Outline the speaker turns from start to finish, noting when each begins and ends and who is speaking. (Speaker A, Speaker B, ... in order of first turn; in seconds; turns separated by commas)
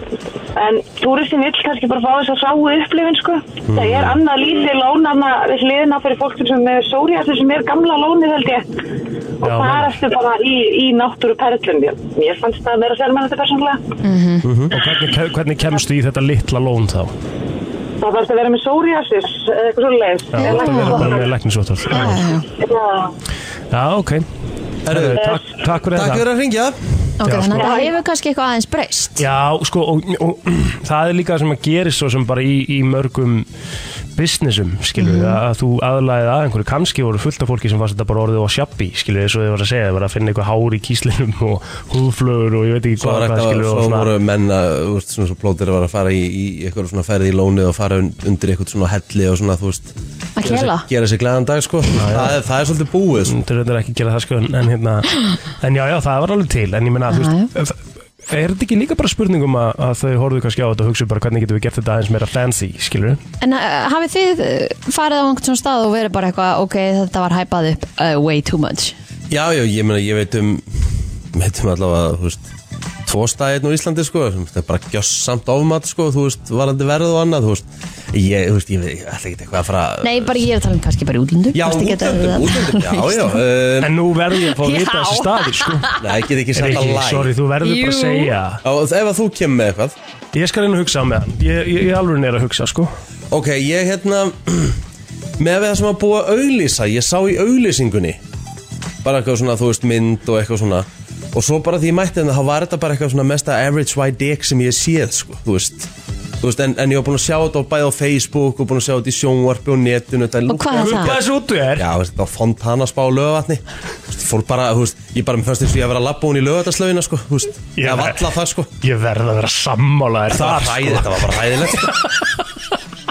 Speaker A: 0.6-8.7, Speaker B: 3.7-4.2, Speaker A: 9.4-13.8, Speaker C: 9.4-9.9, Speaker D: 14.0-14.5, Speaker B: 14.4-14.7, Speaker C: 14.7-17.1, Speaker A: 18.0-21.3, Speaker C: 20.3-22.3, Speaker D: 20.4-21.1, Speaker D: 21.9-22.5, Speaker A: 22.6-23.1, Speaker C: 23.7-24.2, Speaker B: 24.9-25.2, Speaker C: 24.9-26.2, Speaker B: 25.9-26.8, Speaker D: 27.2-29.2, Speaker C: 27.2-27.8, Speaker A: 27.6-27.9, Speaker C: 29.2-33.5, Speaker C: 34.2-44.1, Speaker D: 35.0-35.4, Speaker B: 43.0-49.9, Speaker D: 50.4-50.9, Speaker B: 50.4-53.4, Speaker C: 52.0-52.4, Speaker C: 53.3-57.8, Speaker D: 57.1-57.5, Speaker C: 58.3-63.2, Speaker D: 63.4-69.0, Speaker B: 69.3-72.5, Speaker B: 73.1-80.4, Speaker D: 80.0-83.4, Speaker B: 81.5-83.9, Speaker C: 83.8-85.9, Speaker D: 84.5-86.0, Speaker B: 86.0-87.3, Speaker C: 86.5-88.6, Speaker D: 87.6-88.3, Speaker B: 88.6-90.0, Speaker C: 90.3-92.9, Speaker B: 93.3-94.8, Speaker B: 95.4-98.2, Speaker B: 99.0-105.9, Speaker B: 106.4-111.2, Speaker D: 110.5-111.2, Speaker C: 110.7-111.9, Speaker B: 111.8-118.7, Speaker C: 117.8-118.3, Speaker C: 118.8-122.1, Speaker B: 120.3-122.1